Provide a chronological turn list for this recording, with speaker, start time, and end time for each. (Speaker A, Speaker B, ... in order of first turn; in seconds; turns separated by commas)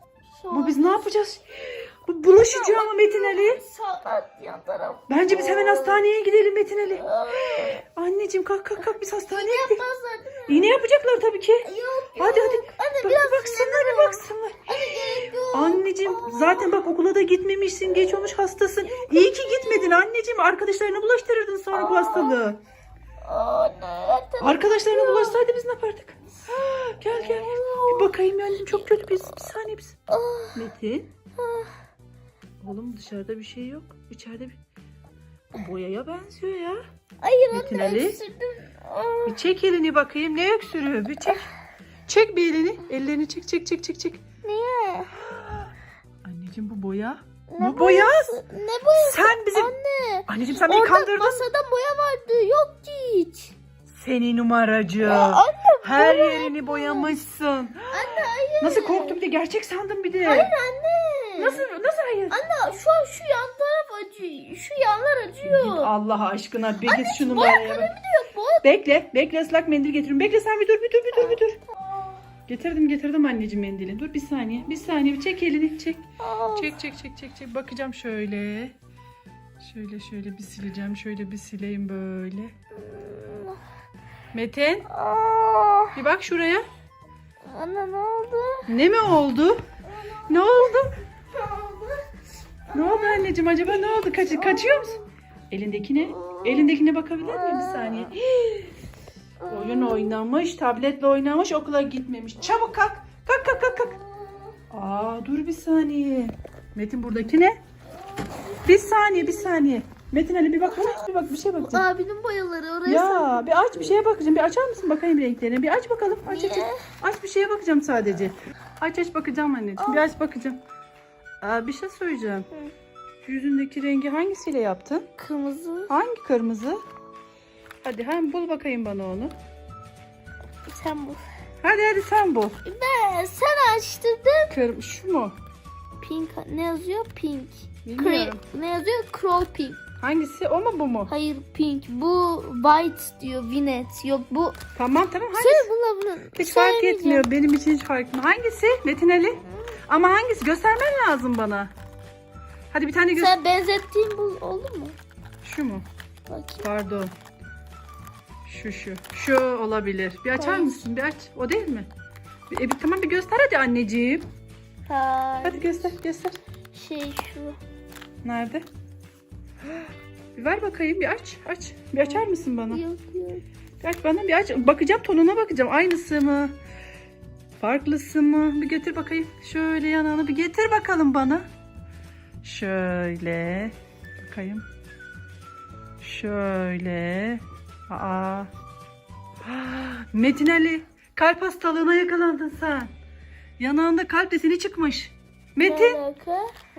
Speaker A: 0.3-1.1, Speaker B: 0.5-3.6, Speaker A: 2.3-6.0, Speaker B: 5.1-7.1, Speaker A: 6.9-7.8, Speaker B: 8.0-9.8, Speaker A: 8.8-10.8, Speaker B: 10.5-22.6, Speaker A: 11.6-16.8, Speaker A: 18.8-20.1, Speaker A: 21.7-22.5, Speaker A: 23.2-25.4, Speaker B: 24.4-30.0, Speaker A: 27.1-28.9, Speaker A: 30.1-30.6, Speaker B: 30.6-31.1, Speaker A: 31.4-31.7, Speaker B: 32.6-34.6, Speaker B: 35.5-36.8, Speaker A: 37.2-39.4, Speaker B: 37.5-38.2, Speaker B: 39.3-41.5, Speaker B: 42.1-44.2, Speaker A: 44.4-45.2, Speaker B: 45.2-45.7, Speaker B: 46.2-48.4, Speaker A: 47.5-53.5, Speaker B: 49.0-49.7, Speaker B: 50.3-51.5, Speaker B: 53.9-60.5, Speaker A: 55.0-57.1, Speaker A: 57.9-59.2, Speaker A: 60.2-61.7, Speaker B: 61.4-62.4, Speaker A: 62.3-65.9, Speaker B: 65.4-67.9, Speaker A: 66.9-68.7, Speaker B: 68.6-71.6, Speaker A: 71.1-72.2, Speaker B: 72.5-78.8, Speaker A: 76.2-76.8, Speaker B: 79.6-82.5, Speaker A: 82.8-83.6, Speaker B: 84.3-84.9, Speaker A: 84.9-86.0, Speaker B: 86.0-86.7, Speaker A: 87.5-88.7, Speaker B: 88.7-89.6, Speaker A: 89.9-92.0, Speaker B: 90.3-90.9, Speaker A: 92.7-95.1, Speaker B: 92.7-95.0, Speaker B: 95.5-98.7, Speaker A: 96.0-98.1, Speaker A: 99.4-100.2, Speaker B: 99.5-104.0, Speaker A: 102.4-102.7, Speaker A: 103.4-104.5, Speaker B: 104.7-107.6, Speaker A: 107.9-109.5, Speaker B: 108.7-111.9, Speaker A: 110.7-111.0, Speaker A: 111.6-113.9, Speaker B: 112.9-120.6, Speaker A: 116.3-116.8, Speaker A: 119.8-120.1, Speaker B: 121.4-122.5, Speaker B: 123.2-125.1, Speaker A: 125.2-126.0, Speaker B: 125.9-126.8, Speaker B: 127.8-129.3, Speaker A: 130.7-131.2, Speaker B: 131.6-132.6, Speaker A: 132.7-134.5, Speaker B: 134.5-135.4, Speaker A: 136.0-139.8, Speaker B: 137.8-138.4, Speaker B: 140.0-141.1, Speaker A: 141.1-144.6, Speaker B: 144.8-145.7, Speaker A: 145.3-147.3, Speaker B: 146.4-151.7, Speaker B: 152.7-153.4, Speaker A: 153.1-155.0, Speaker B: 155.4-155.8, Speaker A: 156.3-156.7, Speaker B: 156.6-157.1, Speaker B: 158.4-161.9, Speaker A: 160.3-160.8, Speaker B: 162.5-164.3, Speaker A: 164.9-165.9, Speaker B: 165.4-166.4, Speaker A: 166.7-167.6, Speaker B: 168.2-168.7, Speaker B: 170.4-172.8, Speaker A: 172.0-173.4, Speaker B: 173.8-176.5, Speaker B: 177.6-181.5, Speaker B: 182.4-184.7, Speaker B: 186.0-188.5, Speaker B: 189.4-192.9, Speaker B: 193.6-196.0, Speaker A: 195.6-196.5